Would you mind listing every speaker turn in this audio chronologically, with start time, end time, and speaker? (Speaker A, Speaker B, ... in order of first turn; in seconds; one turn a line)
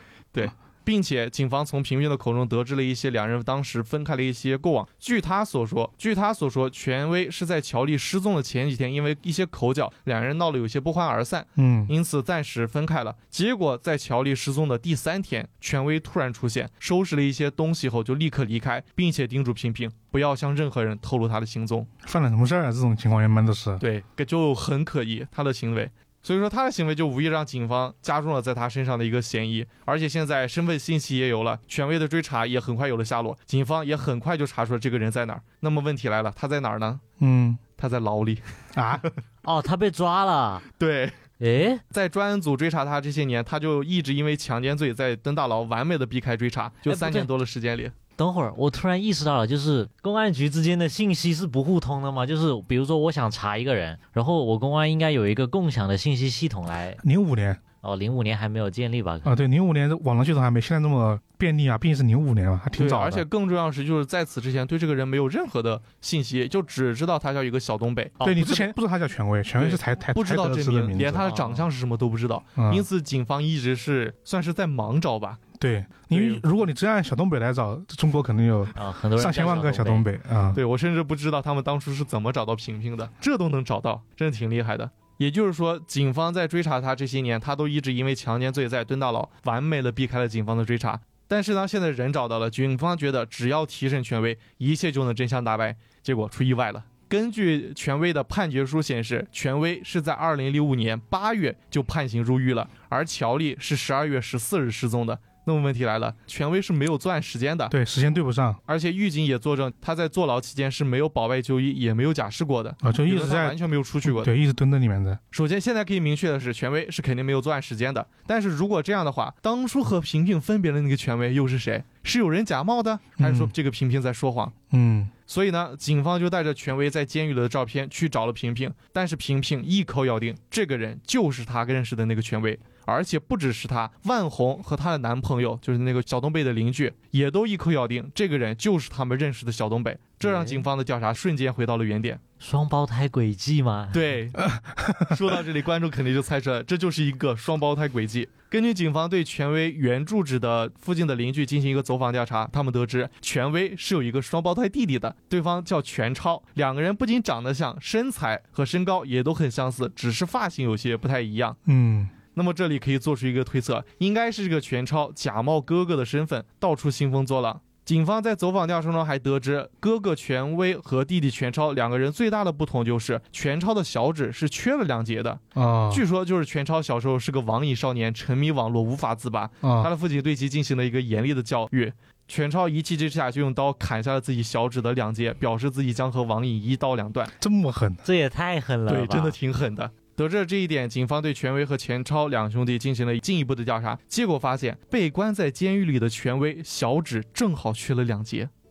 Speaker A: 0.3-21.9
Speaker B: 11.6-11.9
Speaker B: 22.0-23.8
Speaker A: 23.8-37.0
Speaker B: 37.2-37.6
Speaker A: 37.8-39.2
Speaker B: 38.7-39.0
Speaker C: 39.4-40.7
Speaker A: 40.8-41.2
Speaker C: 41.4-41.8
Speaker A: 41.9-47.9
Speaker C: 46.9-47.3
Speaker C: 48.2-57.0
Speaker B: 57.0-57.6
Speaker C: 57.8-59.4
Speaker B: 59.2-63.3
Speaker A: 62.8-68.6
Speaker C: 68.2-68.6
Speaker B: 68.2-71.3
Speaker A: 69.6-75.4
Speaker C: 71.3-71.6
Speaker B: 72.6-72.9
Speaker B: 75.6-80.6
Speaker A: 76.1-76.5
Speaker C: 78.8-80.1
Speaker A: 80.5-107.7
Speaker B: 107.7-108.6
Speaker A: 108.7-114.3
Speaker B: 112.8-115.2
Speaker A: 115.3-124.5
Speaker B: 123.2-123.5
Speaker B: 124.7-125.1
Speaker A: 125.3-142.2
Speaker C: 140.2-140.7
Speaker C: 142.4-144.1
Speaker A: 143.9-161.6
Speaker B: 144.4-145.2
Speaker B: 161.7-162.1
Speaker A: 162.3-187.3
Speaker B: 175.6-176.0
Speaker B: 179.6-179.9
Speaker B: 187.4-188.0
Speaker C: 188.0-189.4
Speaker A: 188.9-198.5